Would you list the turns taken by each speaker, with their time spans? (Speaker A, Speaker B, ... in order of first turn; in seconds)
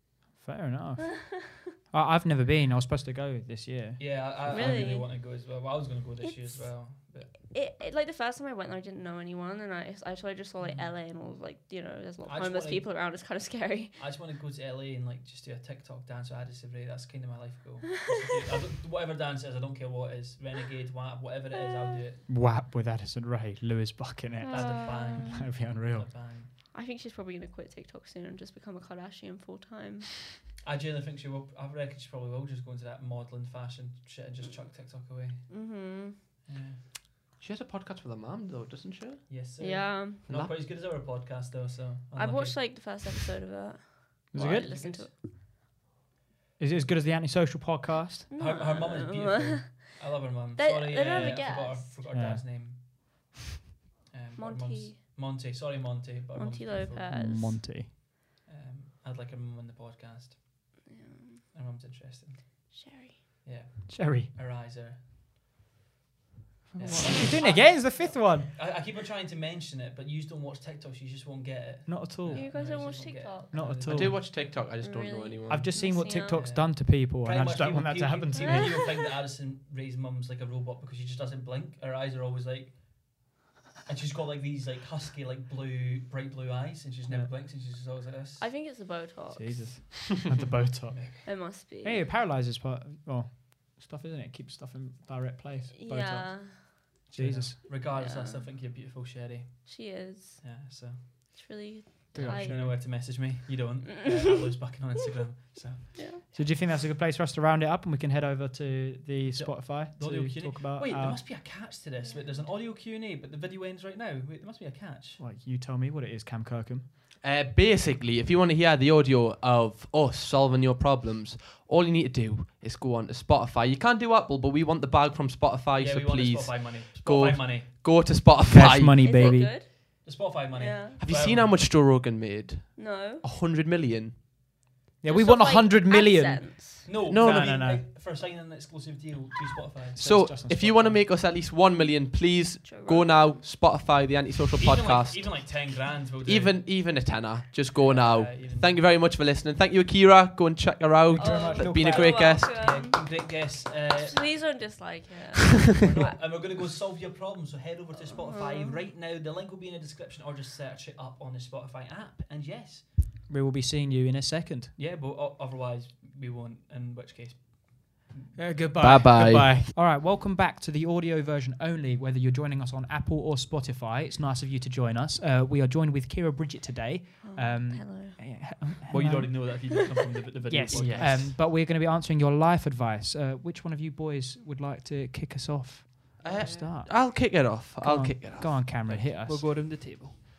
Speaker A: 0.4-4.9, 22.3-26.1, 44.3-45.0, 46.6-48.3, 52.1-52.8, 57.1-57.9, 63.9-64.3, 66.7-68.5, 71.9-72.5, 73.5-74.2, 75.5-78.8, 89.3-97.6, 102.1-102.8, 106.3-111.2, 115.2-116.9, 128.5-129.6, 135.0-137.8, 139.9-141.0, 151.1-151.8, 163.3-164.7, 168.3-179.5, 180.5-189.4
Speaker B: 1.2-1.6, 4.5-5.1, 6.2-14.0, 21.5-22.0, 24.4-25.5, 26.7-30.3, 35.5-36.2, 39.6-40.2, 42.2-45.2, 48.3-50.0, 50.5-51.9, 54.4-55.0, 56.3-57.6, 60.9-61.5, 62.7-63.2, 72.3-73.7, 74.5-76.5, 78.3-79.1, 88.4-89.9, 91.3-92.0, 95.7-96.9, 97.8-98.5, 99.7-100.5, 101.3-102.8, 104.0-104.5, 106.0-106.2, 112.0-112.5, 129.0-131.0, 132.8-133.2, 135.1-136.9, 142.6-143.4, 151.2-156.1, 157.9-158.8, 177.2-178.2
Speaker C: 4.0-7.4, 10.6-10.9, 12.2-12.9, 13.9-22.2, 24.5-26.5, 30.6-35.5, 36.5-36.8, 39.3-42.6, 48.4-52.8, 54.1-57.1, 58.5-60.7, 61.5-62.7, 63.4-65.0, 66.8-74.3, 76.3-83.3, 83.9-88.5, 90.9-91.2, 97.1-99.9, 100.4-101.3, 102.2-106.2, 109.2-115.2, 125.8-127.7, 130.0-131.6, 136.9-140.1, 144.6-146.6, 147.7-148.9, 151.6-154.4, 155.8-162.9, 164.8-168.3, 178.9-181.3, 186.2-186.7, 188.5-190.2
Speaker D: 37.4-39.3, 40.3-40.5, 73.9-75.7, 117.2-129.4, 131.0-134.2, 137.1-137.7, 140.0-152.8, 168.8-169.6, 180.7-181.3, 186.2-189.0